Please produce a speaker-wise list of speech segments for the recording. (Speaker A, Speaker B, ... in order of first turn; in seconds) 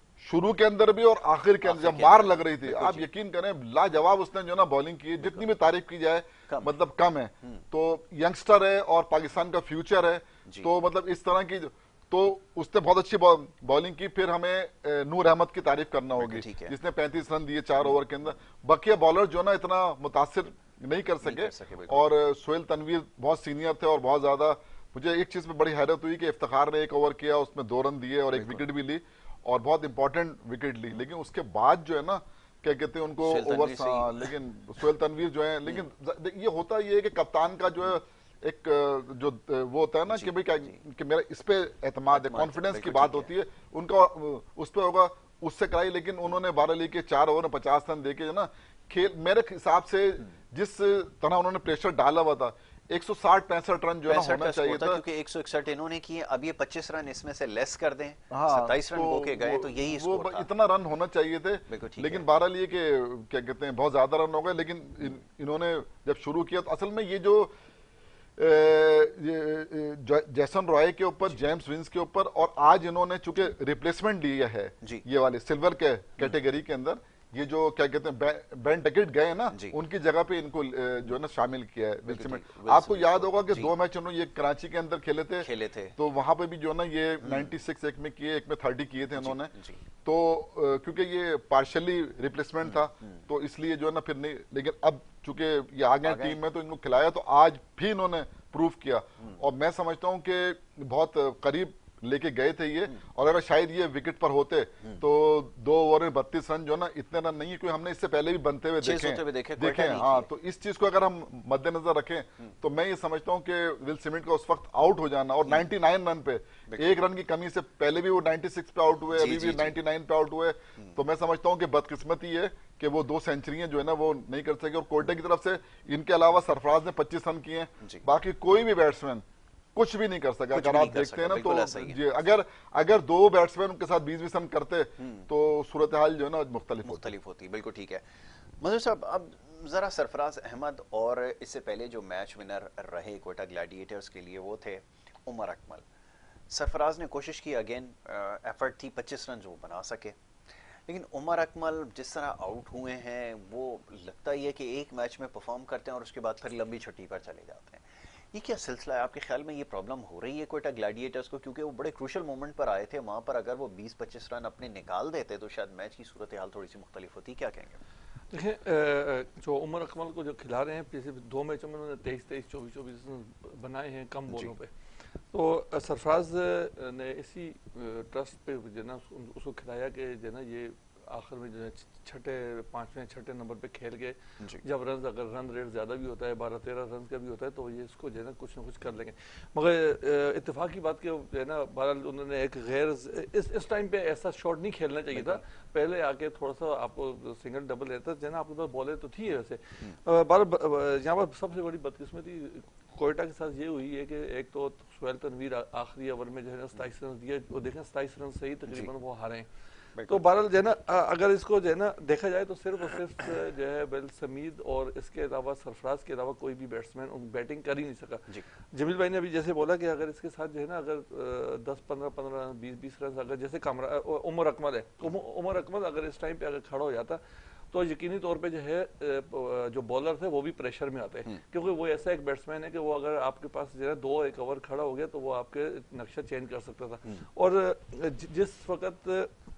Speaker A: 0.2-55.0, 58.3-67.5, 68.4-89.5, 90.0-137.1
Speaker B: 1.6-3.1, 5.2-5.5, 16.2-16.8, 21.2-22.1, 28.3-28.6, 33.2-34.3, 40.1-40.8, 42.1-43.3, 54.1-60.5, 61.7-62.3, 79.5-79.8, 82.1-83.7, 85.4-86.0, 87.2-87.5, 89.2-89.8, 92.6-93.2, 96.0-96.4, 108.8-110.3, 116.7-117.0, 119.1-119.8, 130.5-132.0, 135.0-135.3, 136.8-138.1, 138.6-145.8, 146.5-150.2, 150.9-167.8, 195.1-195.4, 210.0-210.2
Speaker C: 168.3-174.7, 175.3-209.5, 210.1-227.2, 227.7-239.3